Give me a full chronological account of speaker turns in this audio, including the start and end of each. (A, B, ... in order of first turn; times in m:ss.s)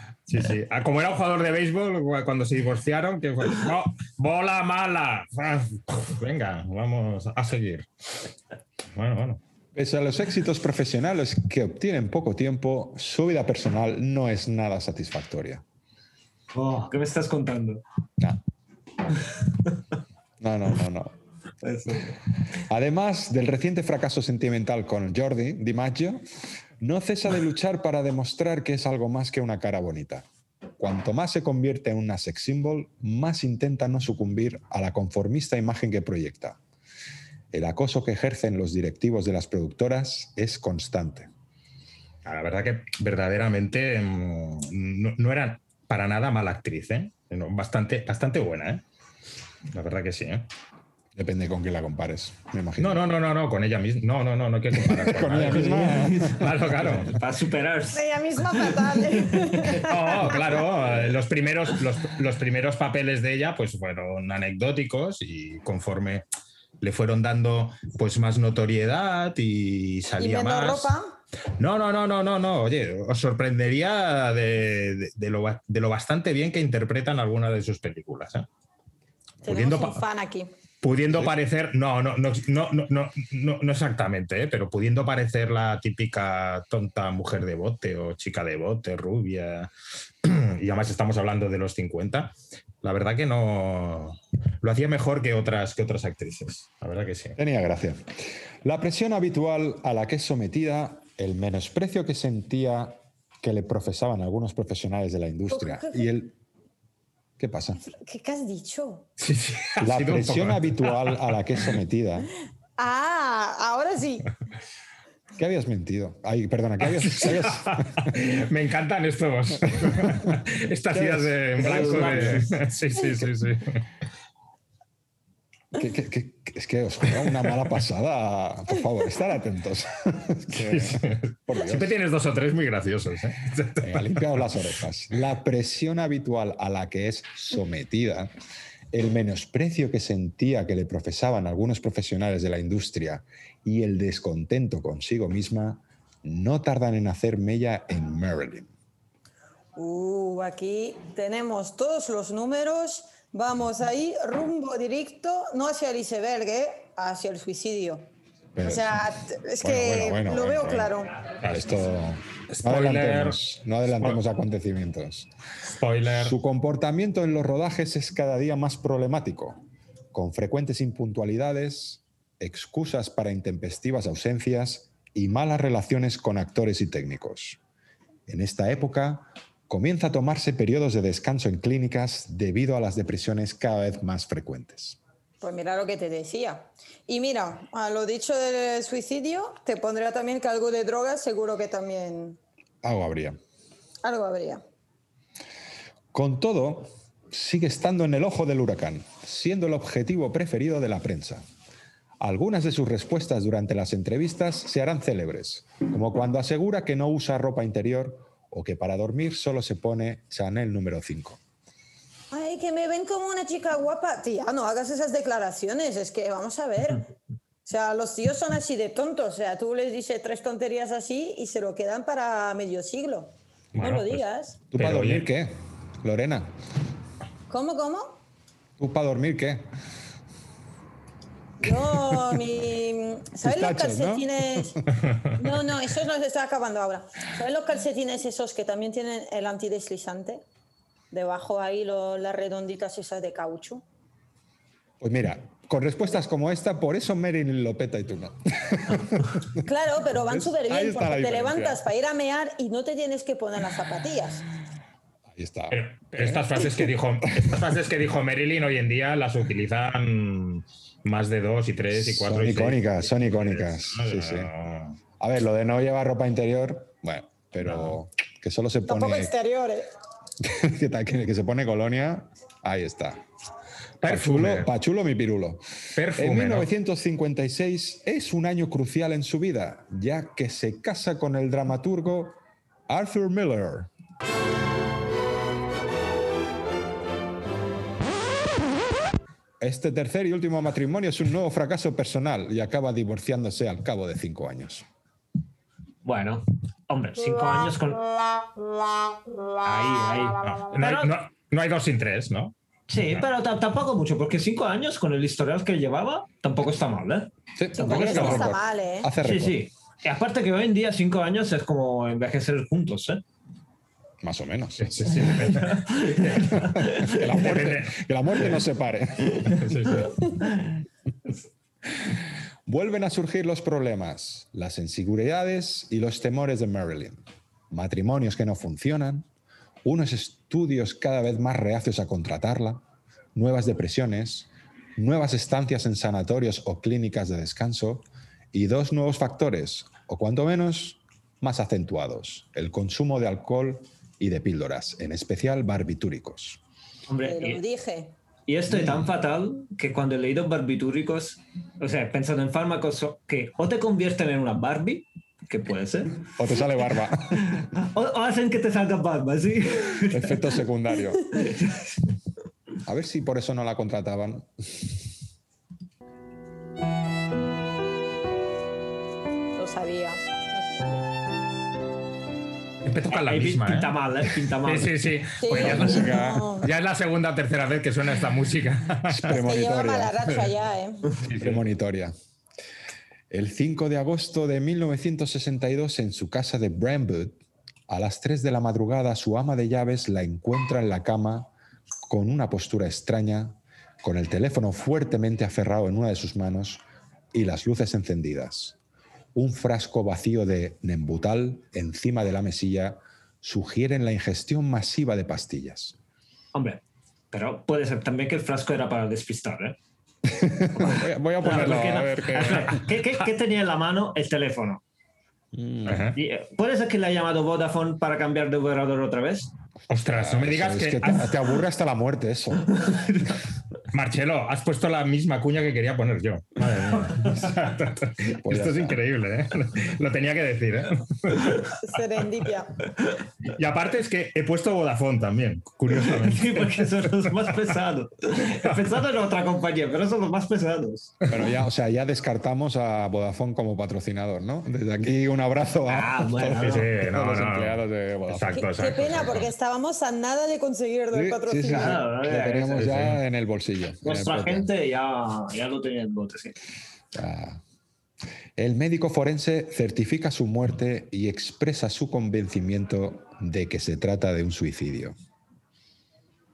0:00.3-0:07.9 A
0:09.0-0:09.4 A
0:09.8-0:15.6 B
0:16.5-0:17.8 C
0:20.4-0:21.2 B
0:21.6-0:22.2 C
0:22.7-0:26.2 B
0:26.8-0:30.3 B
0:30.8-0:36.6 B
0:37.5-0:41.3 B
0:42.2-0:48.8 A
0:49.7-0:50.5 A
0:51.2-0:53.1 B
0:52.8-0:57.2 A
0:54.7-0:56.5 B
0:55.4-0:58.0 C
0:57.9-1:00.1 D
0:58.6-1:00.4 C
0:59.9-1:06.3 A
1:06.8-1:10.9 A
1:10.2-1:11.2 D
1:11.6-1:18.5 A
1:19.4-1:20.0 A
1:19.4-1:20.5 D
1:20.8-1:29.7 A
1:21.1-1:21.3 B
1:30.2-1:37.4 A
1:37.4-1:38.1 B
1:38.6-1:46.4 B
1:45.5-1:46.1 D
1:47.4-1:47.9 B
1:47.8-1:49.1 D
1:49.2-1:51.4 A
1:49.8-1:52.3 B
1:52.8-1:54.3 D
1:55.4-1:58.2 B
1:56.9-2:03.8 A
1:59.7-2:02.5 B
2:01.6-2:02.5 C
2:05.7-2:12.0 B
2:07.2-2:07.5 A
2:10.5-2:14.6 A
2:13.8-2:18.3 B
2:18.9-2:28.7 B
2:29.8-2:38.1 D
2:38.6-2:39.0 B
2:38.6-2:41.1 D
2:39.6-2:45.3 B
2:41.4-2:41.7 A
2:42.5-2:43.4 A
2:45.8-2:46.4 A
2:46.1-2:49.6 B
2:50.1-2:57.6 B
2:58.3-3:05.0 B
3:05.4-3:12.4 D
3:12.8-3:13.4 B
3:14.0-3:14.6 D
3:16.1-3:21.4 B
3:22.2-3:31.4 B
3:32.3-3:37.1 D
3:37.7-3:44.6 D
3:43.8-3:44.2 A
3:44.7-3:46.5 B
3:44.7-3:45.3 A
3:47.5-3:48.2 D
3:48.8-3:49.7 B
3:51.6-3:54.8 D
3:51.9-3:52.2 B
3:53.4-3:54.9 B
3:55.4-4:00.4 D
4:01.1-4:03.8 D
4:05.0-4:11.8 B
4:09.6-4:14.4 D
4:15.3-4:17.6 B
4:15.7-4:25.0 A
4:21.9-4:24.5 B
4:25.2-4:29.3 B
4:27.6-4:28.0 A
4:28.9-4:29.9 D
4:30.4-4:33.2 B
4:34.0-4:34.7 A
4:34.0-4:35.6 B
4:36.0-4:36.7 A
4:36.1-4:43.9 B
4:49.6-4:54.8 B
4:56.0-4:58.0 C
4:59.6-5:01.1 C
5:00.4-5:02.5 A
5:02.9-5:08.5 C
5:07.6-5:09.7 B
5:07.8-5:09.1 D
5:09.2-5:13.2 C
5:14.2-5:15.4 B
5:14.8-5:18.0 A
5:15.2-5:17.3 C
5:16.5-5:19.9 B
5:19.5-5:20.3 A
5:20.0-5:20.7 C
5:22.0-5:29.3 B
5:29.8-5:32.8 B
5:33.4-5:46.6 B
5:47.1-5:47.6 C
5:47.2-5:48.2 D
5:48.5-5:56.3 C
5:48.7-5:49.0 B
5:56.4-5:57.6 B
5:57.4-6:00.5 C
6:00.1-6:01.4 B
6:01.4-6:02.0 C
6:02.9-6:04.9 B
6:09.6-6:11.0 D
6:12.8-6:19.4 A
6:13.1-6:14.9 C
6:15.4-6:16.7 D
6:15.6-6:16.5 B
6:19.0-6:20.2 B
6:19.3-6:21.1 D
6:21.2-6:22.1 B
6:21.3-6:21.6 A
6:23.3-6:31.5 B
6:32.1-6:38.8 B
6:39.4-6:46.0 B
6:46.5-6:49.8 C
6:50.3-6:52.8 B
6:50.8-6:54.8 C
6:51.4-6:53.0 A
6:55.5-6:56.1 B
6:55.9-6:56.2 A
6:56.2-6:59.5 C
6:59.9-7:01.4 A
7:00.1-7:02.8 B
7:02.8-7:03.3 C
7:03.9-7:11.6 A
7:07.0-7:07.4 C
7:08.4-7:09.0 B
7:11.8-7:12.7 D
7:13.5-7:17.6 A
7:15.9-7:21.2 C
7:21.3-7:28.6 B
7:25.9-7:26.9 C
7:26.6-7:29.5 A
7:28.5-7:32.0 D
7:31.1-7:34.7 B
7:31.7-7:33.0 C
7:32.8-7:33.2 A
7:34.0-7:36.6 C
7:37.1-7:37.6 B
7:38.6-7:45.2 B